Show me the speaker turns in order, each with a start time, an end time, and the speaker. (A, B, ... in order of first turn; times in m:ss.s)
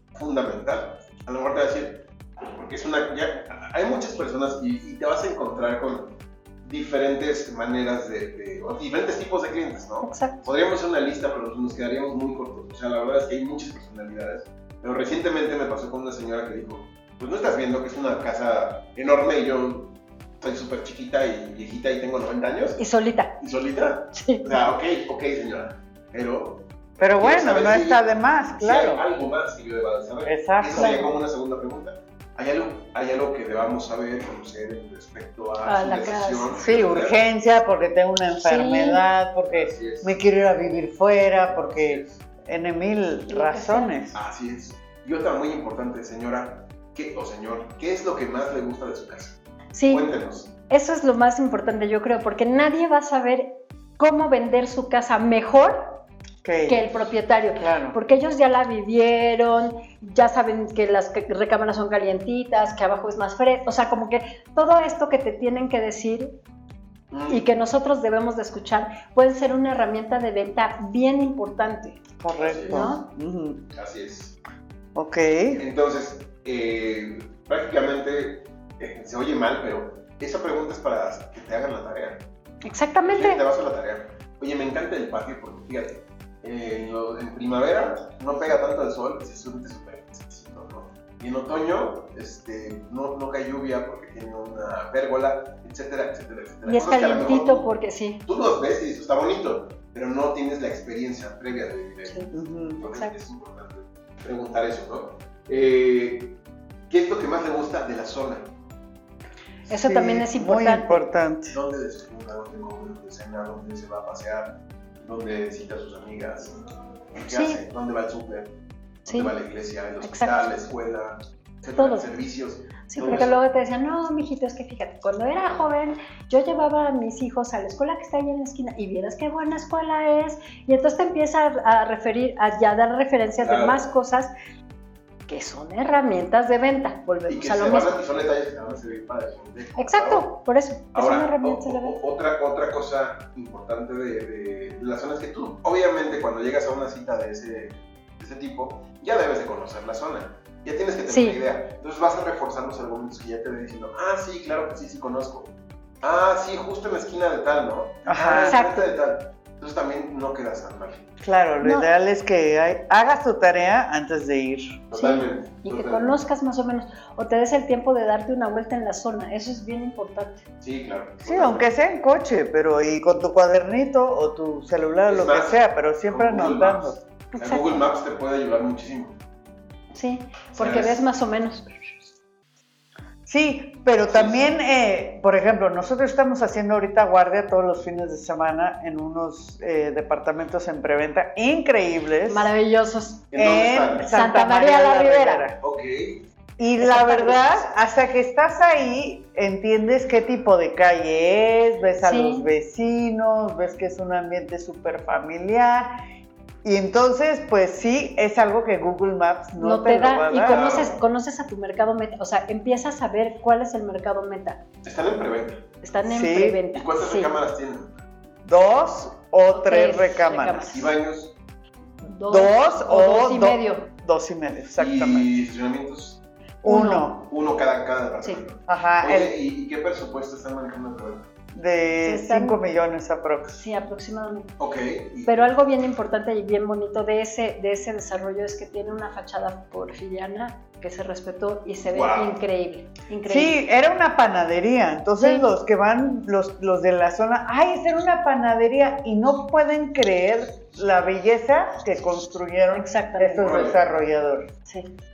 0:00.1-0:22.8 A
0:10.0-0:10.5 B
0:22.8-0:23.4 B
0:23.4-0:26.7 A
0:24.1-0:24.6 B
0:27.0-0:29.0 C
0:27.2-0:28.1 A
0:28.6-0:37.2 A
0:30.2-0:31.0 C
0:30.7-0:31.1 B
0:35.6-0:36.7 B
0:36.6-0:44.2 C
0:38.4-0:39.0 B
0:39.5-0:40.2 A
0:41.6-0:42.2 A
0:43.3-0:43.9 B
0:44.1-0:50.5 A
0:49.7-0:50.1 B
0:50.7-0:56.0 B
0:56.4-0:56.9 C
0:56.7-1:06.4 B
0:57.6-0:58.0 C
1:07.1-1:07.5 A
1:07.3-1:12.0 B
1:12.2-1:13.6 C
1:12.4-1:12.9 A
1:12.7-1:13.0 B
1:13.7-1:14.4 A
1:15.0-1:15.6 C
1:15.6-1:22.2 A
1:22.6-1:23.4 B
1:23.0-1:37.7 A
1:36.7-1:38.2 B
1:38.2-1:46.4 A
1:42.3-1:42.8 C
1:42.8-1:43.1 B
1:46.9-1:48.5 A
1:49.7-1:51.0 B
1:49.7-1:51.6 C
1:51.5-1:56.6 A
1:57.1-1:58.5 A
1:57.3-1:57.6 B
1:59.1-1:59.3 B
1:59.1-2:03.4 A
2:00.0-2:00.6 B
2:01.8-2:02.1 B
2:02.9-2:14.3 B
2:13.4-2:13.9 A
2:15.3-2:18.0 B
2:17.3-2:20.3 A
2:19.8-2:22.0 B
2:20.9-2:41.1 A
2:31.1-2:31.4 B
2:38.1-2:38.6 C
2:38.4-2:38.9 B
2:41.2-2:44.8 C
2:41.6-2:41.9 B
2:44.9-2:46.2 A
2:44.9-2:50.4 B
2:50.6-2:51.7 A
2:51.2-2:57.0 C
2:55.1-2:59.2 A
2:57.3-2:57.8 B
2:59.9-3:02.1 B
3:00.6-3:01.0 A
3:03.3-3:12.5 C
3:04.1-3:04.5 A
3:12.3-3:13.3 B
3:13.3-3:14.1 A
3:13.4-3:15.6 C
3:14.1-3:15.5 B
3:15.6-3:16.2 A
3:16.6-3:25.9 C
3:16.8-3:17.6 B
3:22.0-3:22.5 B
3:26.6-3:30.7 C
3:29.6-3:34.6 B
3:30.4-3:31.0 A
3:34.8-3:35.7 A
3:35.8-3:37.3 B
3:36.0-3:36.6 C
3:36.7-3:37.9 A
3:38.4-3:40.7 C
3:39.5-3:40.9 B
3:40.7-3:41.4 A
3:42.0-3:43.9 B
3:42.3-3:45.3 C
3:44.8-3:46.2 A
3:46.6-3:47.3 C
3:46.6-3:47.1 B
3:47.1-3:51.3 A
3:48.7-3:49.3 C
3:51.5-3:53.6 C
3:52.0-3:52.6 B
3:53.6-3:54.5 B
3:54.6-3:55.3 A
3:55.2-4:03.6 B
4:01.9-4:02.4 A
4:03.3-4:14.5 C
4:05.2-4:05.5 B
4:12.7-4:13.6 B
4:13.4-4:13.8 A